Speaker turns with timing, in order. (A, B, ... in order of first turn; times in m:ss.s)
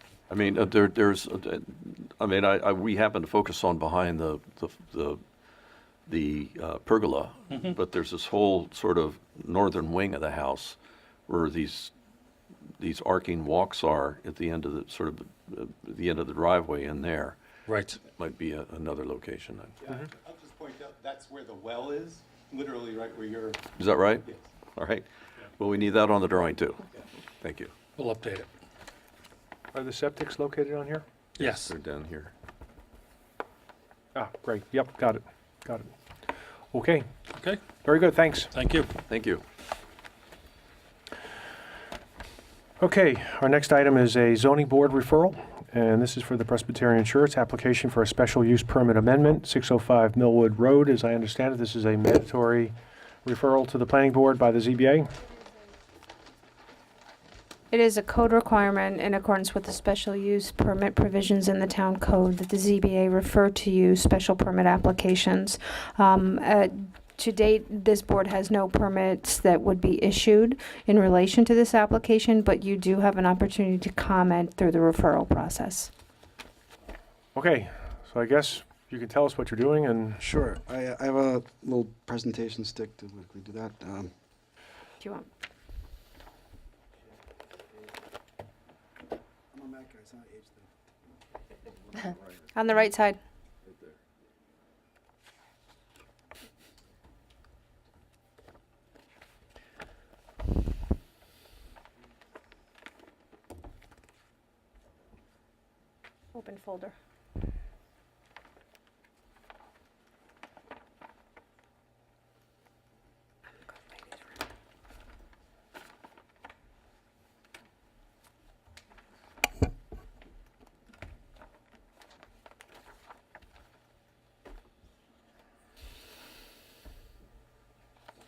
0:00.3-0:05.2 A
0:06.1-0:10.8 A
0:07.5-0:07.8 B
0:11.3-0:11.9 A
0:12.8-0:17.4 A
0:17.6-0:18.0 B
0:18.2-0:19.7 A
0:19.8-0:23.6 C
0:23.8-0:24.2 A
0:24.7-0:25.1 A
0:25.6-0:26.8 A
0:27.4-0:27.7 A
0:27.9-0:28.5 B
0:29.7-0:31.0 D
0:31.4-0:31.7 B
0:31.4-0:32.3 A
0:34.1-0:35.9 D
0:36.7-0:37.1 D
0:37.3-0:37.6 B
0:37.8-0:38.5 D
0:38.5-0:38.9 B
0:39.1-0:39.4 A
0:42.8-0:55.1 D
0:57.7-1:15.9 E
0:57.8-0:58.8 A
0:59.7-1:02.2 A
1:02.8-1:03.7 A
1:05.2-1:05.6 A
1:06.4-1:07.4 A
1:08.7-1:09.4 A
1:10.6-1:12.8 A
1:13.8-1:14.8 A
1:17.3-1:20.2 D
1:20.2-1:24.1 F
1:29.5-1:30.7 F
1:32.6-1:33.2 E
1:32.6-1:33.0 A
1:46.3-1:46.9 A